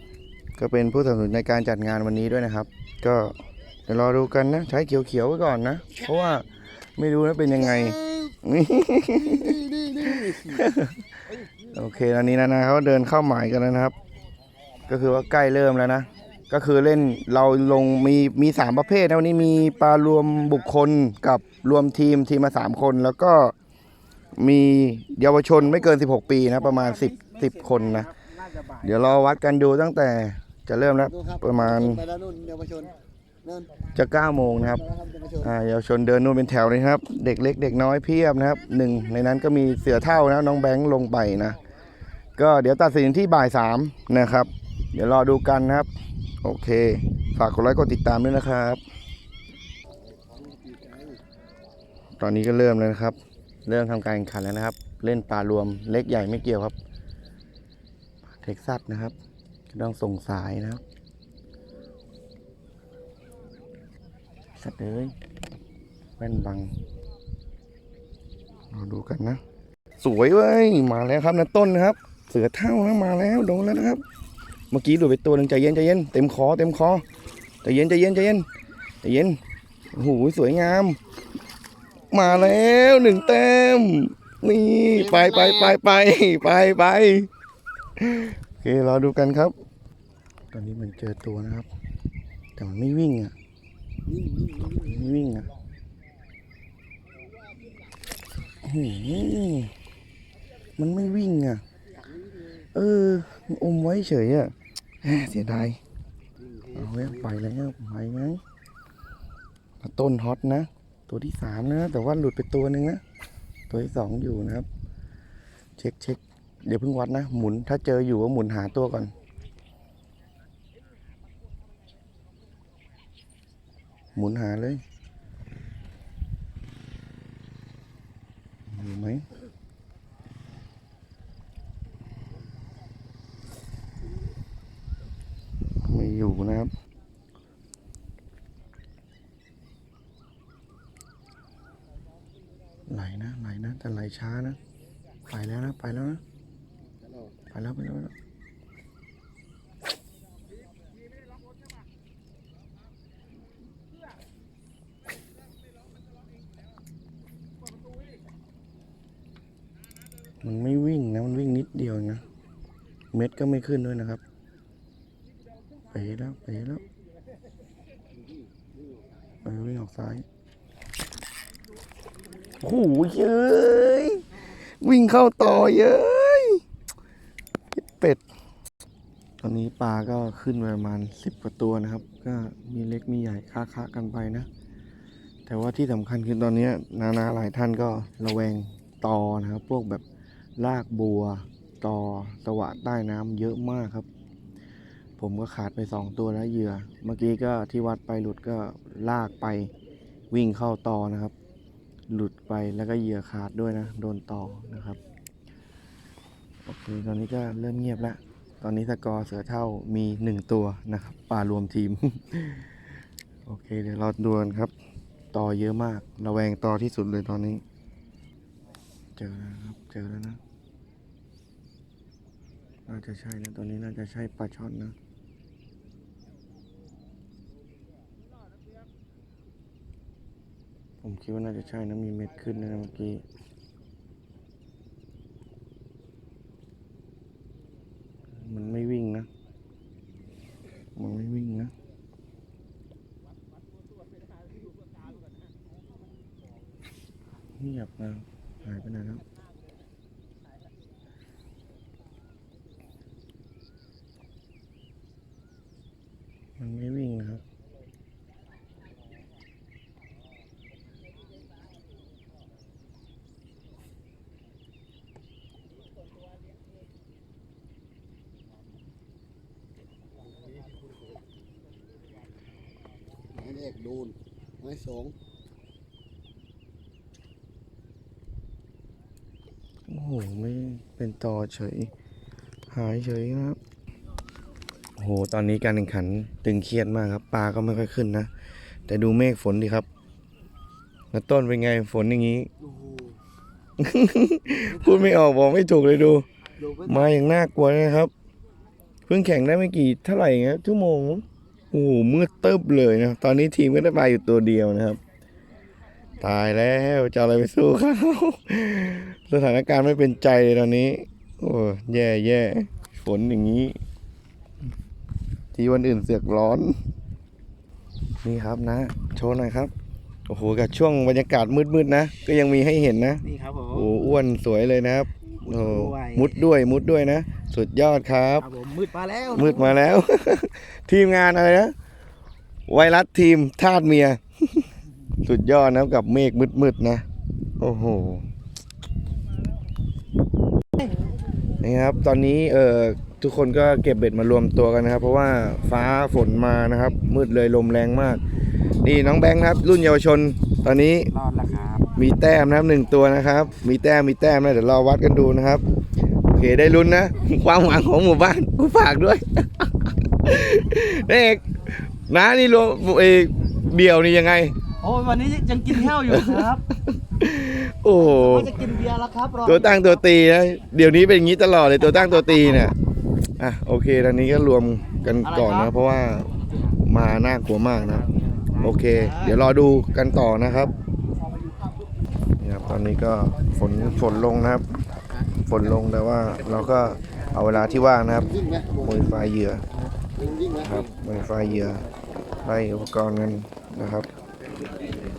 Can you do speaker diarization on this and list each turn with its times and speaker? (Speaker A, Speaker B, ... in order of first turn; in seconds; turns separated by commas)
Speaker A: 0.6-3.3, Speaker A: 3.9-6.5, Speaker A: 7.0-10.9, Speaker B: 9.4-10.6, Speaker A: 11.7-13.9, Speaker A: 14.9-23.5, Speaker A: 24.4-28.1, Speaker A: 28.8-32.1, Speaker B: 32.1-32.9, Speaker A: 33.9-41.6, Speaker A: 42.4-45.9, Speaker A: 46.4-48.8, Speaker A: 52.2-56.7, Speaker A: 58.4-59.1, Speaker A: 59.7-60.8, Speaker A: 64.6-65.1, Speaker A: 66.2-66.7, Speaker A: 68.7-69.4, Speaker A: 70.0-74.0, Speaker A: 74.7-77.0, Speaker A: 77.6-78.5, Speaker A: 79.0-79.4, Speaker A: 79.9-81.0, Speaker A: 82.1-87.3, Speaker B: 85.2-85.7, Speaker A: 88.0-89.5, Speaker A: 90.5-91.7, Speaker A: 92.6-93.3, Speaker B: 94.1-94.7, Speaker A: 94.7-95.5, Speaker A: 98.6-99.7, Speaker A: 100.8-101.6, Speaker A: 102.7-105.8, Speaker A: 106.7-108.4, Speaker A: 109.8-113.0, Speaker A: 113.7-114.7, Speaker A: 115.8-119.1, Speaker A: 124.1-124.8, Speaker A: 128.7-129.2, Speaker A: 135.8-136.7, Speaker A: 142.9-144.6, Speaker A: 145.3-146.2, Speaker A: 147.5-148.1, Speaker A: 160.4-162.2, Speaker A: 163.1-164.2, Speaker A: 165.9-166.8, Speaker A: 169.4-170.2, Speaker A: 172.6-174.2, Speaker A: 174.8-176.6, Speaker A: 177.7-178.2, Speaker A: 179.4-184.5, Speaker A: 185.4-190.0, Speaker A: 190.6-194.1, Speaker A: 195.2-199.7, Speaker A: 200.3-201.3, Speaker A: 202.1-205.0, Speaker A: 206.7-212.7, Speaker A: 213.4-214.7, Speaker A: 215.3-217.6, Speaker A: 219.2-220.4, Speaker A: 222.9-224.9, Speaker A: 231.0-233.2, Speaker A: 238.4-239.3, Speaker A: 240.9-241.7, Speaker A: 247.6-249.2, Speaker A: 256.6-257.4, Speaker B: 273.4-275.1, Speaker A: 279.9-281.9, Speaker A: 282.7-283.6, Speaker A: 285.0-288.3, Speaker A: 288.9-289.9, Speaker A: 291.1-292.5, Speaker C: 292.6-293.1, Speaker A: 293.8-296.2, Speaker C: 296.6-296.9, Speaker A: 296.8-298.1, Speaker A: 299.1-305.0, Speaker A: 306.2-313.8, Speaker A: 315.5-316.7, Speaker A: 318.2-319.7, Speaker A: 320.3-328.5, Speaker C: 323.2-323.8, Speaker C: 325.5-326.3, Speaker C: 328.4-329.5, Speaker A: 329.3-331.7, Speaker A: 332.7-334.6, Speaker A: 335.2-337.0, Speaker A: 337.6-338.3, Speaker A: 341.6-348.2, Speaker A: 348.8-351.1, Speaker C: 351.2-351.8, Speaker A: 352.0-355.6, Speaker A: 356.3-364.5, Speaker C: 364.8-366.6, Speaker A: 365.7-368.5, Speaker C: 368.2-369.4, Speaker A: 369.4-372.7, Speaker A: 373.4-376.3, Speaker A: 376.8-378.1, Speaker A: 378.6-380.7, Speaker A: 382.4-384.6, Speaker A: 385.5-388.3, Speaker A: 388.8-389.6, Speaker A: 390.6-391.8, Speaker A: 392.4-394.1